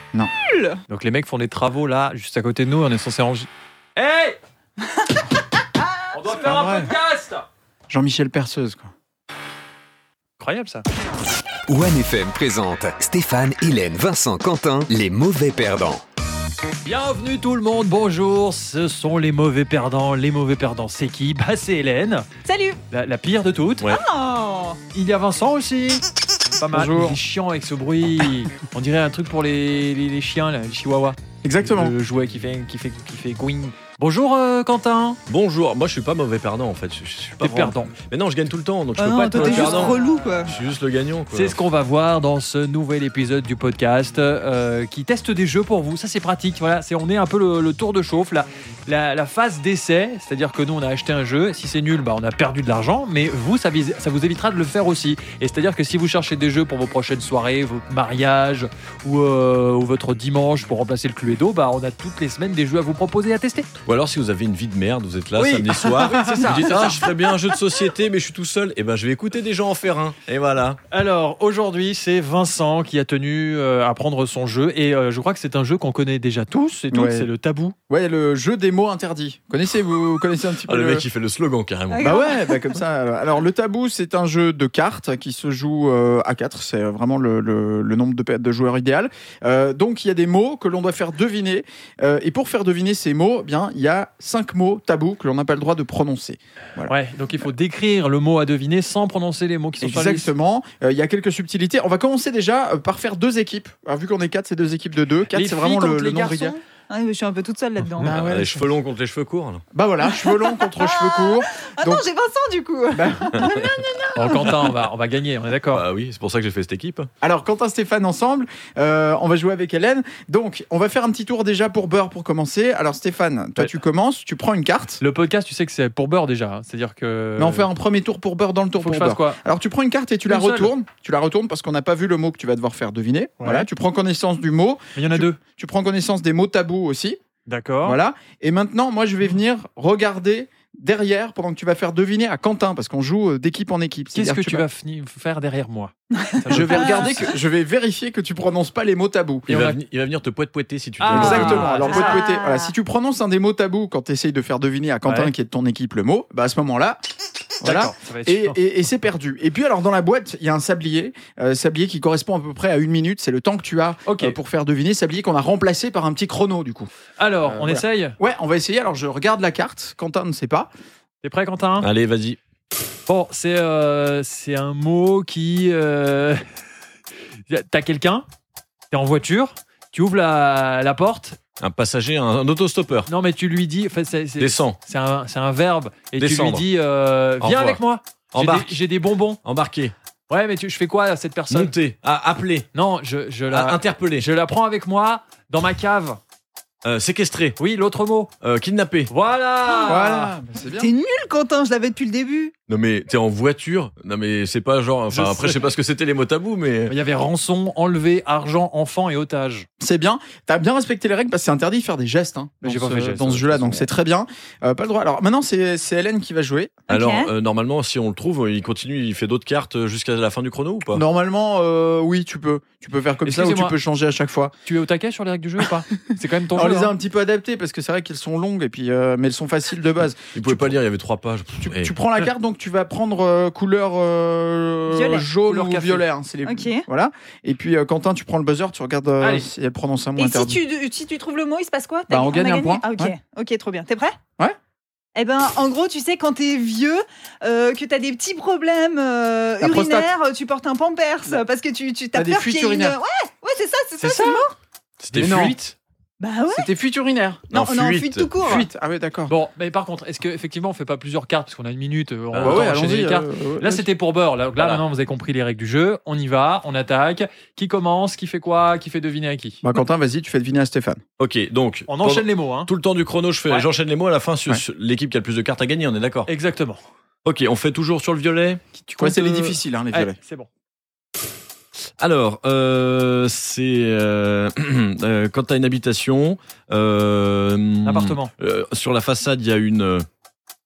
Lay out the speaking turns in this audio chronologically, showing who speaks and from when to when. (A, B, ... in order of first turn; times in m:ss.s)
0:00.5-0:00.8 A
0:00.9-0:04.4 B
0:06.1-0:07.4 B
0:06.3-0:06.9 C
0:07.9-0:08.9 C
0:10.4-0:10.8 B
0:11.7-0:16.0 D
0:16.8-0:22.3 B
0:22.4-0:22.8 A
0:22.9-0:23.9 B
0:23.9-0:24.8 A
0:24.9-0:26.0 B
0:26.6-0:35.2 B
0:26.7-0:27.2 C
0:31.4-0:31.9 C
0:35.2-0:41.6 E
0:37.4-0:37.9 B
0:39.0-0:40.5 A
0:39.3-0:40.4 B
0:41.3-1:03.7 B
1:03.8-1:10.8 E
1:05.4-1:07.1 B
1:06.2-1:06.8 C
1:10.9-1:17.8 B
1:16.9-1:17.3 C
1:17.9-1:21.0 C
1:20.6-1:22.2 E
1:21.9-1:22.6 A
1:22.0-1:36.9 C
1:36.9-1:40.3 B
1:39.8-1:46.6 C
1:45.3-1:46.6 B
1:46.9-1:48.2 A
1:48.0-1:48.7 C
1:48.1-1:49.6 E
1:49.7-1:52.0 C
1:50.1-1:54.7 A
1:52.9-1:53.7 C
1:54.1-1:55.8 B
1:55.7-1:57.1 E
1:57.2-2:05.0 C
2:05.0-2:07.7 B
2:07.4-2:17.2 C
2:08.8-2:09.4 B
2:10.3-2:10.7 B
2:13.4-2:13.7 B
2:15.0-2:15.4 B
2:17.4-2:18.0 B
2:17.8-2:24.6 C
2:24.1-2:27.3 B
2:26.2-2:27.1 A
2:26.5-2:29.5 C
2:29.5-2:29.8 B
2:29.5-2:31.8 E
2:31.0-2:32.2 B
2:31.1-2:37.0 C
2:31.8-2:32.7 A
2:35.0-2:35.3 B
2:37.6-2:46.9 C
2:37.6-2:38.6 B
2:44.0-2:44.4 B
2:47.2-2:48.2 B
2:47.4-2:50.7 C
2:51.2-2:51.9 B
2:51.8-2:52.4 E
2:53.1-2:56.4 B
2:57.5-2:58.2 B
2:58.9-3:01.4 B
3:01.6-3:03.1 E
3:03.1-3:09.4 B
3:04.4-3:04.8 E
3:06.2-3:06.6 E
3:07.4-3:08.8 E
3:09.4-3:09.9 E
3:10.3-3:11.7 B
3:11.5-3:12.7 E
3:12.7-3:16.2 B
3:13.5-3:14.3 E
3:16.8-3:17.6 E
3:17.6-3:18.3 B
3:18.4-3:19.1 E
3:19.1-3:20.3 B
3:19.7-3:20.0 A
3:19.8-3:20.9 C
3:20.7-3:22.5 A
3:22.7-3:26.9 E
3:25.1-3:25.7 B
3:26.9-3:29.7 B
3:29.8-3:36.7 C
3:32.6-3:33.9 B
3:36.9-3:37.3 A
3:36.9-3:41.0 E
3:40.9-3:44.5 C
3:43.2-3:43.8 B
3:44.6-3:46.9 B
3:46.5-3:50.7 C
3:50.3-3:51.9 E
3:51.6-4:00.6 C
3:54.9-3:55.3 A
3:55.3-3:56.0 B
3:56.4-3:56.8 A
3:59.2-3:59.5 B
4:00.2-4:04.2 A
4:02.1-4:03.1 C
4:05.1-4:14.5 A
4:09.6-4:10.1 C
4:12.1-4:13.0 C
4:14.0-4:14.4 B
4:15.0-4:15.6 E
4:15.1-4:15.7 B
4:15.2-4:15.6 C
4:16.2-4:16.7 A
4:16.5-4:17.4 C
4:17.5-4:18.7 A
4:17.5-4:18.6 E
4:18.4-4:19.3 C
4:19.3-4:29.6 B
4:22.3-4:22.6 E
4:22.4-4:23.9 C
4:24.6-4:24.8 E
4:29.6-4:31.0 C
4:31.2-4:36.3 E
4:31.9-4:32.7 B
4:36.3-4:36.8 B
4:37.2-4:38.6 E
4:38.8-4:40.5 B
4:39.0-4:40.2 C
4:42.0-4:50.0 E
4:47.8-4:48.3 B